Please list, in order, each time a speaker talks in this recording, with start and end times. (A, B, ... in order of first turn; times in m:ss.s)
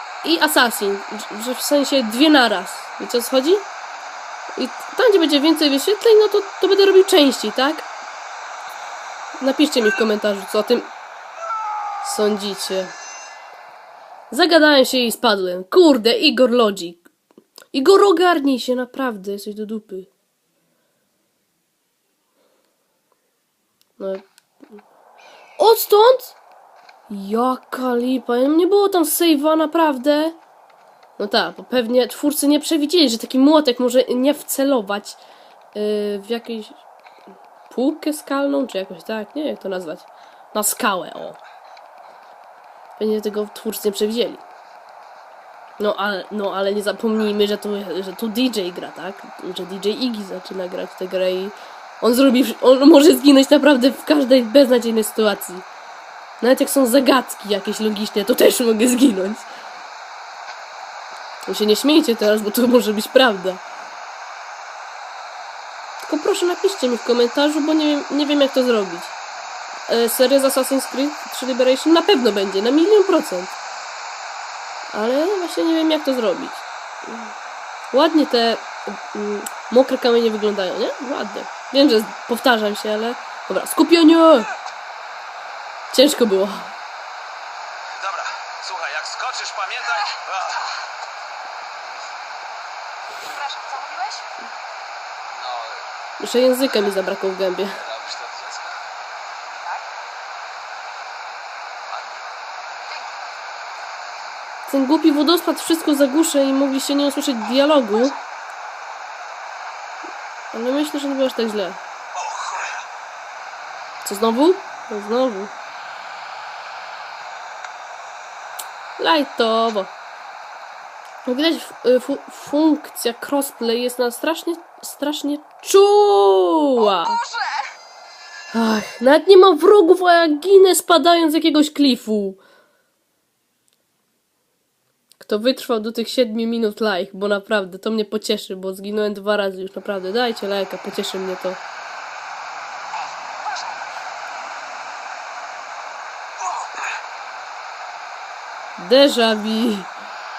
0:00.2-0:03.6 A
0:04.6-0:07.9 A
0:09.4-0:10.9 A
0:12.0-0:12.9 A
0:14.3-0:17.0 A
0:17.7-0:20.1 A
0:24.0-0:24.2 A
0:25.6-0:26.4 A
0:27.1-0:30.4 A
0:31.2-0:35.2 A
0:35.8-0:36.8 A
0:37.7-0:41.4 A
0:43.0-0:44.4 A
0:45.8-0:55.7 A
0:56.4-0:59.5 A
1:01.5-1:03.6 A
1:06.0-1:09.1 A
1:09.9-1:13.6 A
1:14.9-1:17.3 A
1:17.9-1:24.5 A
1:25.9-1:26.7 A
1:27.9-1:30.6 B
1:29.9-1:30.7 C
1:33.1-1:34.3 C
1:35.3-1:35.9 B
1:36.2-1:37.8 A
1:36.7-1:37.1 B
1:37.6-1:38.8 B
1:39.6-1:39.9 C
1:41.9-1:42.3 B
1:42.9-1:43.2 C
1:44.7-1:48.2 A
1:47.4-1:48.2 C
1:50.5-1:51.8 A
1:52.2-1:52.8 B
1:54.0-1:55.5 A
1:59.0-1:59.9 A
2:01.3-2:07.2 A
2:06.8-2:07.7 C
2:08.5-2:12.4 A
2:15.2-2:21.6 A
2:22.9-2:24.0 C
2:28.8-2:29.9 A